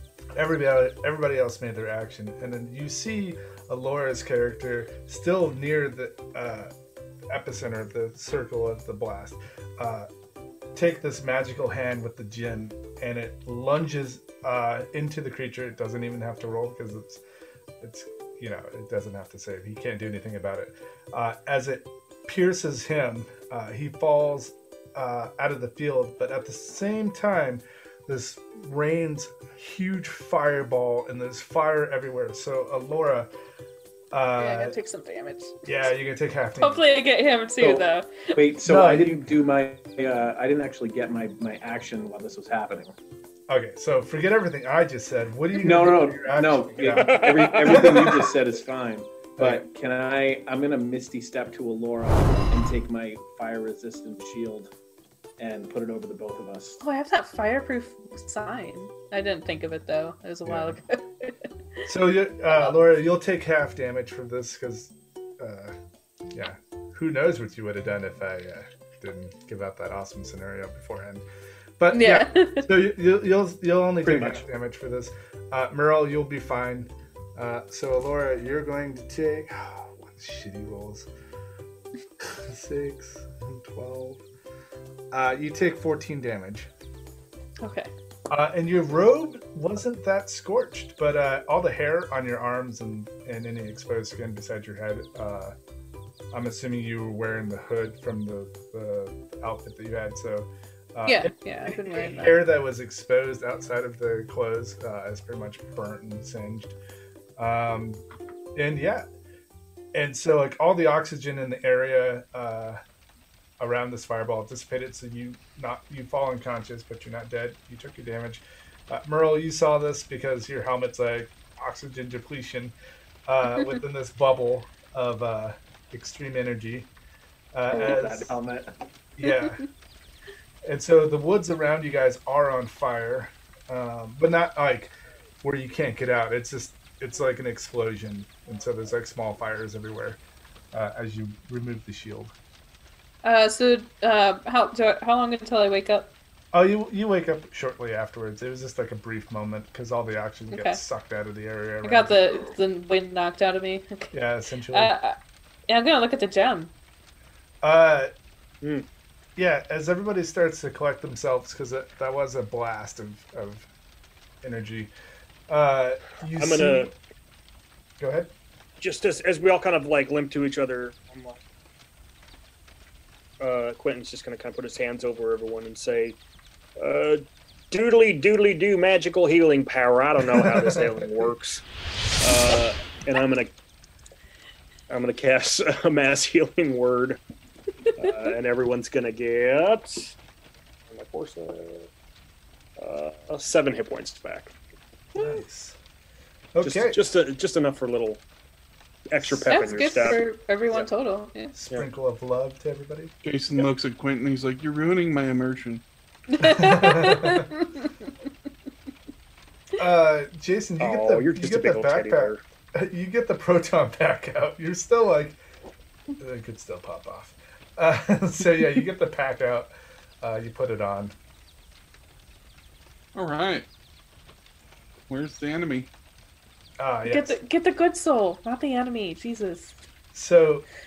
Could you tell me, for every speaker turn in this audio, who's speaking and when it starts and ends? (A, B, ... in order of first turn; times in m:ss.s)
0:00.4-0:06.7 A
0:07.3-0:10.1 A
0:10.7-0:17.2 A
0:17.8-0:33.3 A
0:34.1-0:34.8 A
0:34.4-0:35.6 B
0:35.6-0:36.8 A
0:36.6-0:38.4 B
0:37.6-0:42.9 C
0:38.6-0:39.3 A
0:43.5-0:48.3 A
0:45.6-0:54.7 C
0:47.0-0:47.9 D
0:49.4-0:49.6 A
0:55.4-0:56.8 C
0:56.8-1:01.4 B
1:00.4-1:00.8 A
1:01.8-1:05.7 A
1:06.3-1:11.2 A
1:11.8-1:21.1 A
1:11.9-1:12.7 B
1:14.0-1:14.4 C
1:22.3-1:24.2 A
1:25.1-1:26.7 A
1:27.6-1:27.9 B
1:28.3-1:35.5 A
1:36.3-1:46.7 A
1:41.0-1:42.4 B
1:47.4-1:48.0 A
1:48.6-1:49.0 A
1:49.9-1:52.8 A
1:53.6-2:02.7 A
2:03.3-2:06.9 A
2:07.5-2:08.4 A
2:07.7-2:08.7 C
2:09.2-2:09.6 A
2:10.6-2:14.9 A
2:15.4-2:20.2 A
2:20.7-2:22.3 A
2:23.2-2:26.1 B
2:26.5-2:32.2 A
2:30.5-2:30.8 B
2:31.8-2:34.1 B
2:34.1-2:34.9 A
2:34.7-2:35.1 B
2:35.7-2:36.7 B
2:37.6-2:38.1 A
2:39.4-2:43.7 A
2:44.4-2:44.9 A
2:45.5-2:46.9 A
2:46.4-2:46.9 D
2:48.0-2:48.3 A
2:48.8-2:51.4 D
2:53.4-2:56.2 D
2:56.8-3:01.6 D
3:00.3-3:01.1 A
3:02.2-3:03.5 D
3:04.9-3:07.2 D
3:08.0-3:10.1 D
3:10.9-3:11.9 D
3:12.8-3:14.5 D
3:15.1-3:15.8 A
3:16.5-3:17.0 A
3:16.6-3:18.2 D
3:19.1-3:20.2 D
3:19.4-3:21.5 B
3:21.6-3:23.1 A
3:23.2-3:25.8 E
3:26.3-3:27.9 B
3:26.4-3:27.5 A
3:29.8-3:35.4 A
3:30.8-3:32.4 D
3:36.2-3:39.7 A
3:40.2-3:41.1 A
3:43.1-3:43.6 E
3:45.1-3:45.9 E
3:46.8-3:47.4 A
3:47.1-3:49.7 B
3:50.1-3:50.6 A